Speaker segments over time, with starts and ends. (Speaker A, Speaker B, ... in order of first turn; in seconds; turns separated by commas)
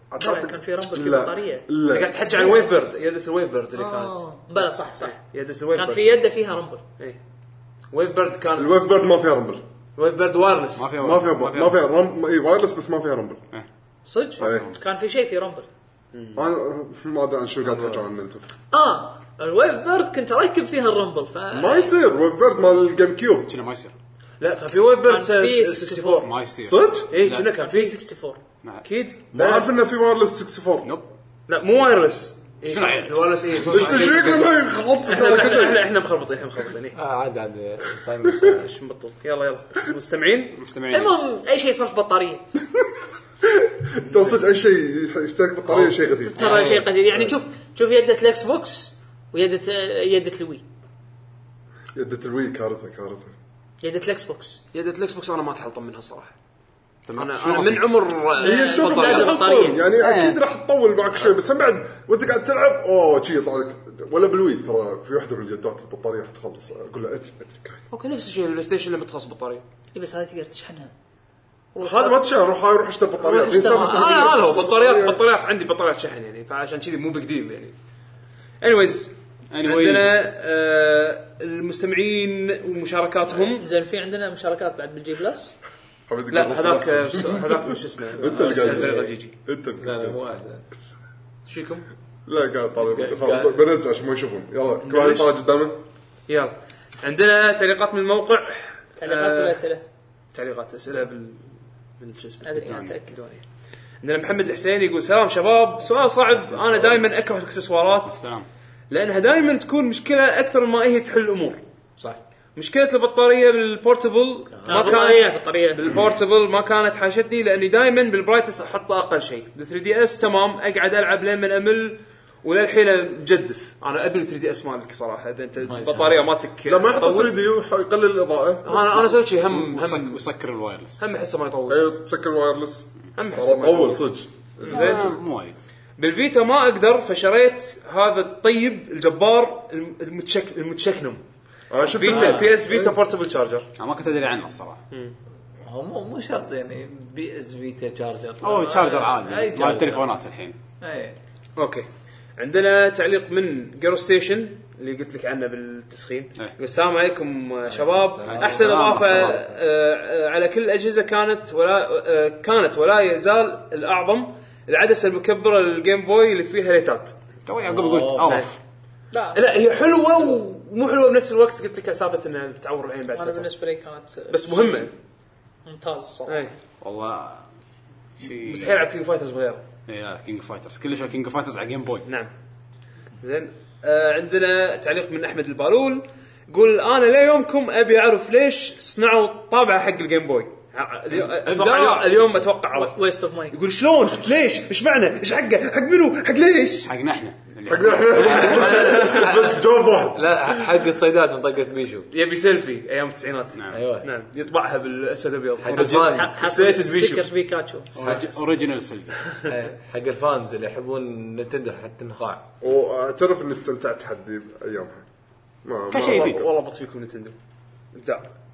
Speaker A: 0.1-2.4, Speaker B: 0.2-1.7, Speaker C: 1.9-4.2, Speaker B: 2.3-2.7, Speaker B: 3.8-5.2, Speaker C: 5.0-6.0, Speaker B: 5.7-6.8, Speaker C: 7.9-8.9, Speaker A: 8.6-9.6, Speaker C: 10.0-10.9, Speaker D: 10.8-11.8, Speaker A: 11.0-13.4, Speaker B: 14.1-15.7, Speaker C: 14.1-14.4, Speaker A: 14.4-14.7, Speaker C: 16.1-16.4, Speaker A: 16.3-18.4, Speaker B: 18.7-21.9, Speaker A: 21.5-23.5, Speaker D: 23.4-23.9, Speaker C: 24.4-26.3, Speaker B: 25.1-26.3, Speaker D: 26.2-27.5, Speaker A: 26.6-27.1, Speaker C: 27.1-28.0, Speaker B: 27.6-28.4, Speaker C: 28.8-29.7, Speaker A: 29.3-30.9, Speaker C: 31.5-37.0, Speaker D: 32.7-34.1, Speaker A: 33.6-35.8, Speaker E: 36.9-38.8, Speaker C: 38.6-40.6, Speaker D: 40.6-41.1, Speaker B: 40.9-42.4, Speaker A: 43.4-47.3, Speaker E: 45.7-46.9, Speaker B: 46.3-50.6, Speaker A: 51.9-53.3, Speaker B: 53.8-54.6, Speaker C: 54.7-56.3, Speaker D: 57.1-57.9, Speaker C: 57.1-59.8, Speaker B: 58.4-59.8, Speaker A: 58.4-67.8, Speaker D: 60.0-60.4, Speaker C: 67.9-69.6, Speaker B: 69.9-70.9, Speaker B: 71.7-72.2, Speaker A: 71.8-75.2, Speaker B: 73.2-74.7, Speaker C: 73.7-77.7, Speaker C: 78.6-83.7, Speaker D: 79.5-80.2, Speaker B: 83.5-85.5, Speaker A: 86.1-90.2, Speaker C: 86.3-89.3, Speaker E: 88.2-89.1, Speaker E: 89.8-90.6, Speaker C: 91.5-91.8, Speaker A: 92.2-95.8, Speaker E: 92.9-93.6, Speaker E: 94.9-95.2, Speaker C: 96.3-99.6, Speaker B: 99.0-99.8, Speaker C: 100.3-103.4, Speaker B: 102.4-103.2, Speaker D: 102.6-102.9, Speaker C: 104.0-108.2, Speaker D: 108.0-108.5, Speaker C: 108.9-127.3, Speaker E: 114.6-114.9, Speaker B: 114.7-115.9, Speaker E: 125.6-126.3, Speaker A: 126.6-129.1, Speaker C: 128.6-130.2, Speaker D: 129.5-131.0, Speaker C: 131.0-131.8, Speaker A: 131.7-135.1, Speaker C: 133.2-134.0, Speaker C: 134.6-135.1, Speaker D: 134.7-135.5, Speaker C: 136.0-141.2, Speaker A: 141.7-142.9, Speaker C: 141.9-143.7, Speaker E: 142.1-142.5, Speaker D: 143.8-144.8, Speaker E: 145.6-150.1, Speaker D: 148.4-150.6, Speaker E: 150.8-151.2, Speaker C: 151.6-167.2, Speaker E: 157.7-159.2, Speaker D: 158.4-159.4, Speaker D: 167.4-168.6, Speaker E: 167.6-168.4, Speaker B: 169.1-169.7, Speaker C: 169.3-173.5, Speaker B: 173.1-174.9, Speaker C: 174.3-174.9, Speaker B: 175.6-176.4, Speaker C: 176.3-176.5, Speaker D: 176.8-177.4, Speaker D: 178.2-178.8, Speaker C: 178.3-179.6, Speaker D: 179.9-182.1, Speaker C: 182.1-182.3, Speaker C: 183.2-196.9, Speaker E: 191.5-191.9, Speaker D: 191.7-192.0, Speaker B: 192.7-193.6, Speaker D: 196.8-198.7, Speaker A: 197.7-200.2, Speaker E: 198.2-199.6, Speaker C: 198.6-199.3, Speaker E: 200.1-202.1, Speaker C: 202.1-207.3, Speaker E: 203.7-204.1, Speaker E: 205.6-206.4, Speaker B: 205.7-207.9, Speaker D: 207.9-209.3, Speaker E: 208.0-208.4, Speaker E: 209.4-212.4, Speaker A: 212.6-215.0, Speaker A: 215.6-216.5, Speaker D: 215.9-216.4, Speaker C: 215.9-217.3, Speaker C: 217.9-218.3